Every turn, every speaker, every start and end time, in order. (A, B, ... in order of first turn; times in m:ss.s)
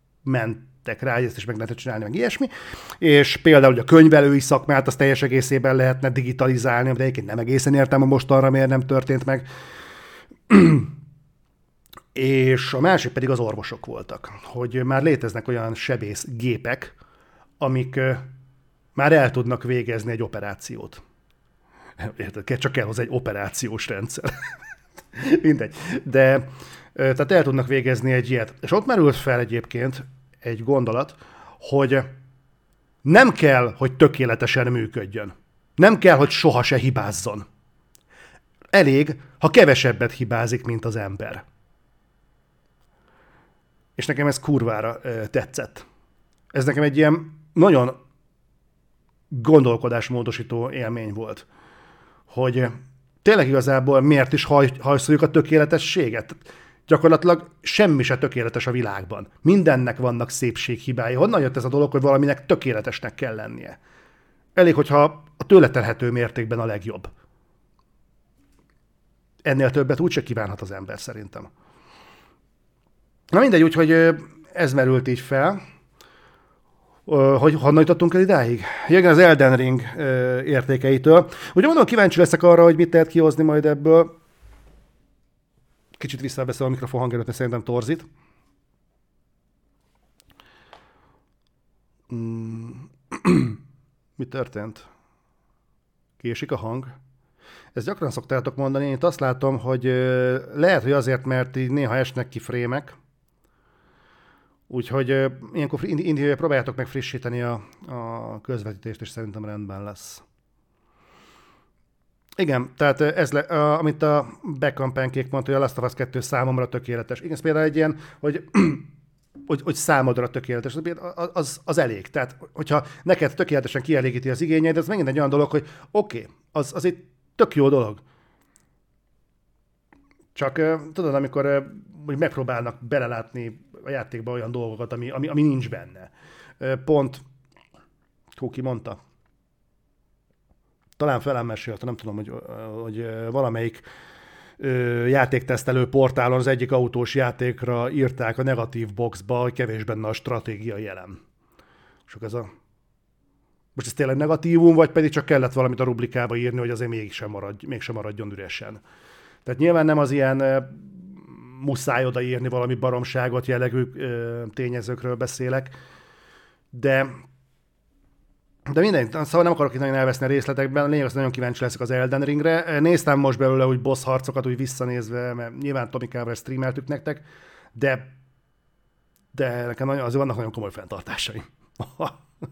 0:00.2-0:09.5 A
0:10.5-0:10.9 A
0:12.2-0:17.0 A
0:17.6-0:18.3 A
0:19.0-0:21.0 A
0:22.0-0:24.3 A
0:25.2-0:32.2 A
0:33.0-0:37.5 A
0:38.7-0:41.4 A
0:44.0-0:45.9 A
0:46.5-0:48.0 A
0:49.3-0:51.5 A
0:52.3-1:03.8 A
1:04.6-1:07.1 A
1:09.4-1:11.5 A
1:13.3-1:15.6 A
1:17.1-1:24.1 A
1:26.0-1:28.1 A
1:32.1-1:33.6 A
1:34.2-1:34.9 A
1:36.2-1:37.0 A
1:37.8-1:43.0 A
1:44.7-1:50.2 A
1:52.4-1:58.9 A
1:59.4-2:08.0 A
2:10.4-2:17.2 A
2:18.4-2:19.0 A
2:21.0-2:23.9 A
2:24.6-2:31.2 A
2:32.1-2:32.5 A
2:33.8-2:38.8 A
2:39.4-2:45.8 A
2:46.7-2:47.2 A
2:48.7-2:57.2 A
2:57.8-2:58.1 A
2:59.3-3:02.2 A